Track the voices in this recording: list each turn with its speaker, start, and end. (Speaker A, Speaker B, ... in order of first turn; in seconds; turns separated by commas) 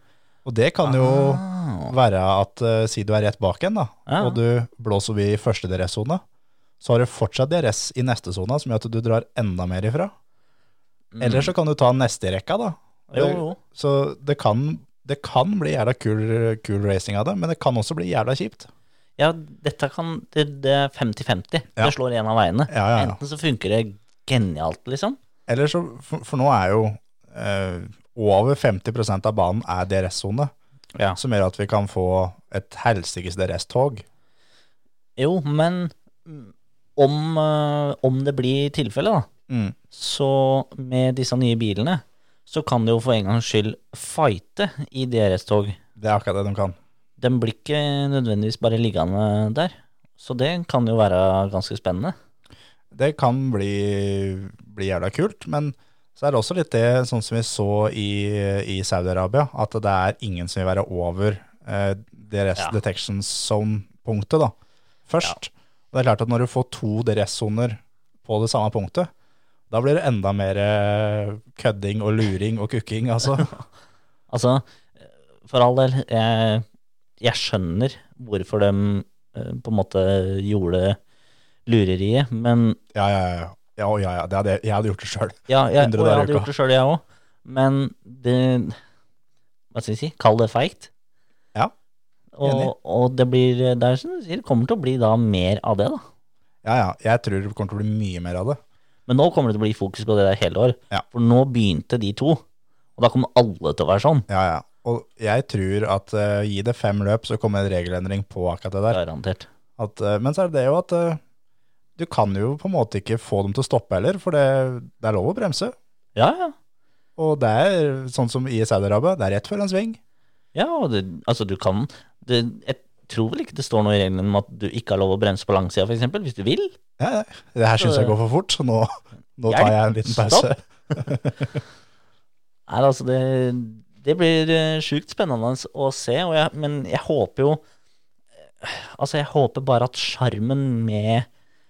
Speaker A: 0.5-6.2, Speaker B: 0.8-1.9, Speaker B: 4.1-4.4, Speaker A: 6.8-10.1, Speaker B: 11.1-11.5, Speaker A: 11.2-18.7, Speaker B: 13.1-13.6, Speaker B: 19.2-25.2, Speaker A: 22.7-23.2, Speaker A: 25.5-30.5, Speaker A: 31.2-34.0, Speaker B: 35.2-39.3, Speaker A: 39.5-39.8, Speaker B: 39.9-45.8, Speaker A: 46.0-46.8, Speaker B: 47.2-52.1, Speaker A: 52.9-64.5, Speaker A: 65.1-69.1, Speaker A: 69.7-73.5, Speaker B: 74.3-74.7, Speaker B: 75.5-76.7, Speaker B: 77.2-81.0, Speaker B: 81.7-82.8, Speaker A: 82.9-86.5, Speaker B: 85.5-88.8, Speaker B: 89.7-90.9, Speaker B: 92.4-96.0, Speaker A: 92.4-92.7, Speaker A: 96.6-98.6, Speaker B: 99.1-102.4, Speaker B: 103.0-104.3, Speaker A: 104.3-109.0, Speaker B: 108.9-109.5, Speaker A: 109.8-111.2, Speaker A: 112.0-115.8, Speaker B: 116.2-116.5, Speaker A: 117.2-120.0, Speaker B: 120.5-126.8, Speaker A: 127.0-131.5, Speaker B: 127.8-128.1, Speaker B: 129.5-131.0, Speaker B: 132.7-137.6, Speaker B: 138.6-141.3